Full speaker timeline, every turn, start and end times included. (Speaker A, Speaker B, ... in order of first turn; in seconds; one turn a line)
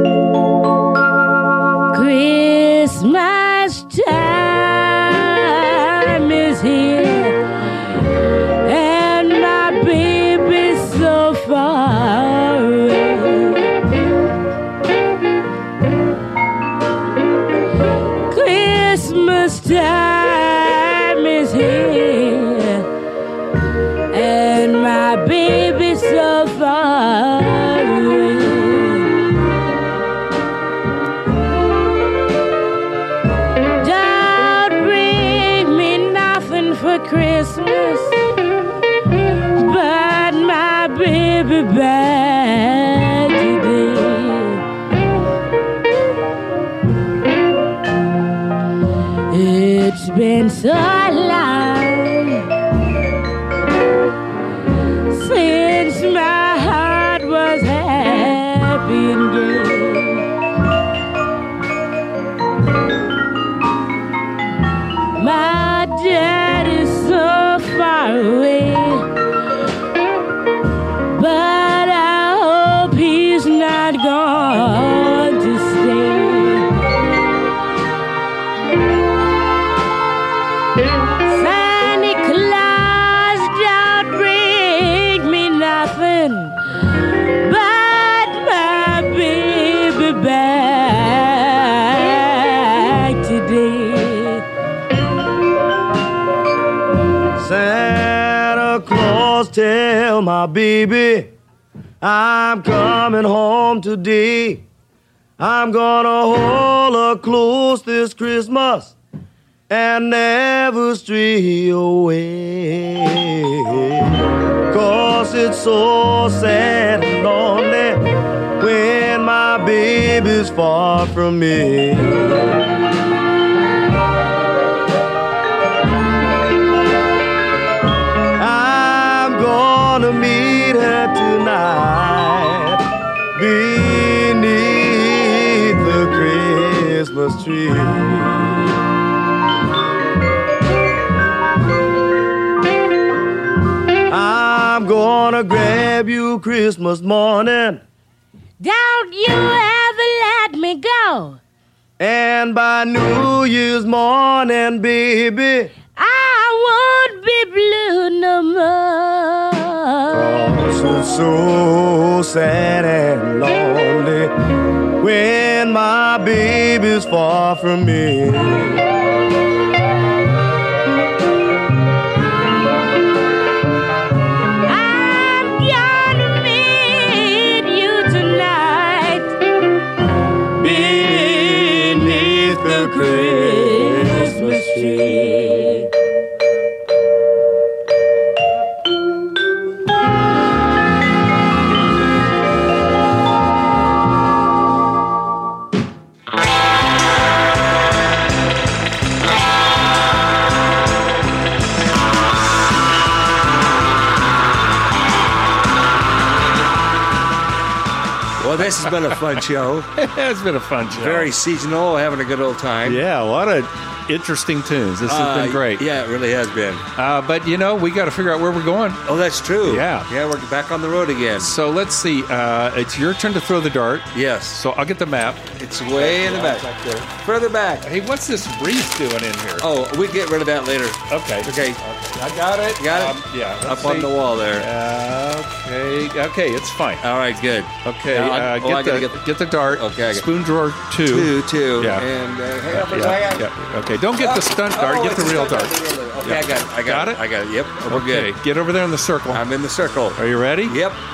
Speaker A: 1.9-7.4
Speaker A: 8.7-13.7
Speaker A: 18.3-22.9
Speaker A: 24.1-29.1
Speaker A: 33.8-38.2
Speaker A: 39.6-44.6
Speaker A: 49.3-52.5
Speaker A: 55.1-60.2
Speaker A: 65.2-69.1
Speaker A: 71.1-76.7
Speaker A: 81.2-86.6
Speaker A: 87.4-94.4
Speaker B: 97.4-101.3
Speaker B: 102.0-104.6
Speaker B: 105.4-109.0
Speaker B: 109.7-118.0
Speaker B: 118.6-122.5
Speaker B: 128.4-132.8
Speaker B: 133.3-138.7
Speaker B: 144.1-147.8
Speaker A: 148.6-151.4
Speaker B: 152.0-155.7
Speaker A: 155.9-160.2
Speaker B: 160.1-164.3
Speaker B: 165.0-168.8
Speaker A: 174.7-179.4
Speaker A: 180.6-185.8
Speaker B: 180.6-185.9
Speaker C: 208.4-209.9
Speaker D: 210.0-211.3
Speaker C: 210.9-213.0
Speaker D: 212.8-215.8
Speaker C: 215.1-216.9
Speaker D: 217.0-219.0
Speaker C: 219.1-221.5
Speaker D: 219.6-220.1
Speaker D: 221.4-227.1
Speaker C: 224.1-224.6
Speaker C: 225.6-227.9
Speaker D: 227.8-229.7
Speaker C: 229.6-231.8
Speaker D: 231.1-237.1
Speaker C: 232.8-234.7
Speaker C: 237.0-240.3
Speaker D: 237.8-242.1
Speaker C: 241.1-243.5
Speaker D: 242.7-245.7
Speaker C: 244.2-248.4
Speaker D: 246.2-247.2
Speaker D: 247.9-249.4
Speaker C: 249.3-251.0
Speaker D: 250.2-250.8